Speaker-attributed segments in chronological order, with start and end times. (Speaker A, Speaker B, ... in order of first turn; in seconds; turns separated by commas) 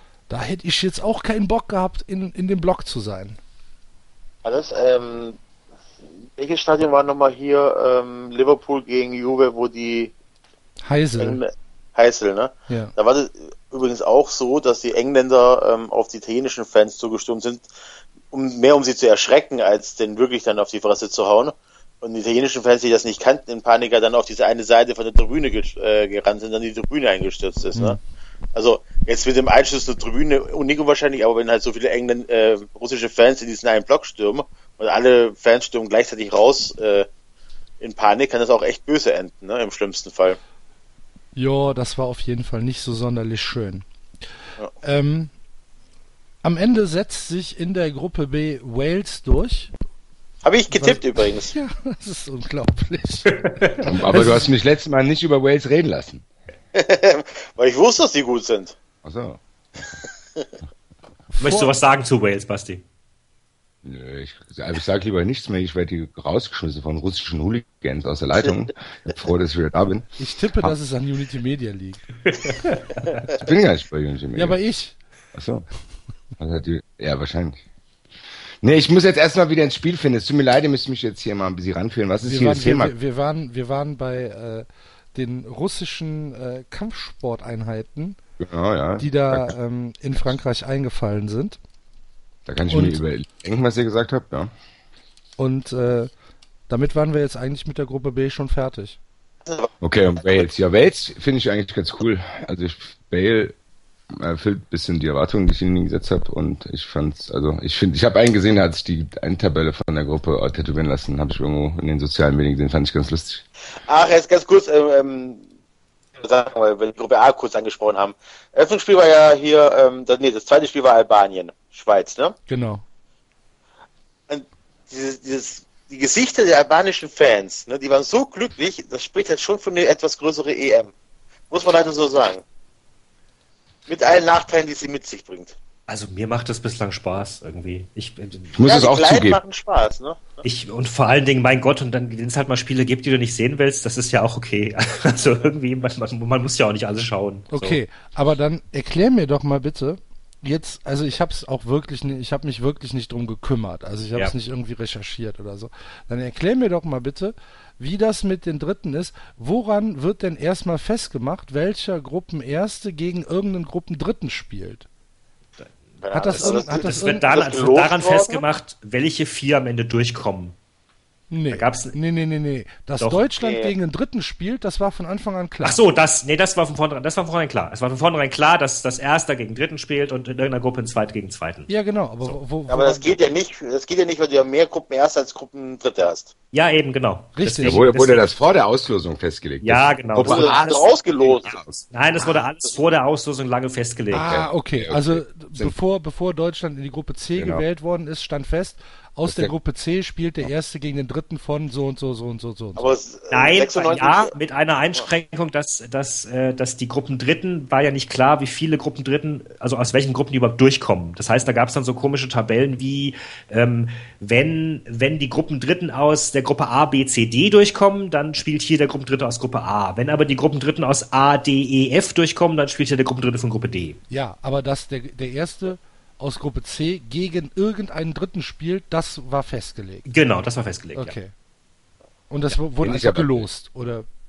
Speaker A: 0.3-3.4, Speaker B: 4.4-5.4, Speaker B: 6.2-10.1, Speaker A: 10.8-11.4, Speaker B: 11.2-17.7, Speaker A: 12.7-12.9, Speaker B: 18.3-28.0, Speaker B: 28.5-37.1, Speaker B: 37.8-40.4, Speaker A: 41.3-43.8, Speaker A: 44.8-45.3, Speaker A: 46.4-49.7, Speaker B: 50.4-51.5, Speaker A: 50.7-53.4, Speaker C: 53.3-53.9, Speaker D: 53.8-56.2, Speaker A: 54.1-54.5, Speaker B: 56.7-58.8, Speaker D: 59.0-60.0, Speaker A: 61.3-61.7, Speaker C: 61.4-62.8, Speaker D: 63.8-70.7, Speaker A: 70.2-72.0, Speaker C: 72.5-73.1, Speaker D: 73.3-74.6, Speaker A: 74.3-75.0, Speaker D: 75.3-75.6, Speaker D: 76.4-77.6, Speaker D: 78.6-82.9, Speaker A: 82.2-88.2, Speaker D: 88.4-89.5, Speaker A: 89.0-91.6, Speaker D: 92.5-94.5, Speaker A: 92.7-93.0, Speaker A: 95.4-96.1, Speaker A: 96.7-99.0, Speaker B: 99.4-99.7, Speaker D: 99.8-103.5, Speaker D: 104.1-113.4, Speaker B: 113.9-115.4, Speaker B: 116.2-122.3, Speaker A: 122.5-122.8, Speaker B: 124.3-130.9, Speaker B: 131.5-132.4, Speaker B: 133.9-135.6, Speaker C: 135.9-138.6, Speaker D: 138.5-139.4, Speaker B: 138.6-140.4, Speaker C: 140.4-147.8, Speaker A: 147.5-164.9, Speaker C: 165.6-170.5, Speaker B: 166.0-168.4, Speaker A: 166.1-167.3, Speaker A: 171.3-175.8, Speaker C: 171.5-172.0, Speaker C: 173.0-173.2, Speaker B: 173.4-173.7, Speaker C: 175.6-181.7, Speaker A: 181.7-183.1, Speaker B: 182.7-186.3, Speaker C: 186.5-188.3, Speaker A: 187.3-187.8, Speaker D: 187.6-190.8, Speaker C: 189.6-194.3, Speaker B: 190.2-191.6, Speaker D: 191.4-191.7, Speaker A: 194.1-202.9, Speaker D: 194.2-195.7, Speaker D: 197.4-197.6, Speaker D: 199.2-199.5, Speaker B: 202.8-204.3, Speaker C: 203.3-224.0, Speaker A: 224.1-230.1, Speaker C: 230.1-231.2, Speaker A: 230.9-231.3, Speaker A: 232.3-234.1, Speaker D: 232.8-233.5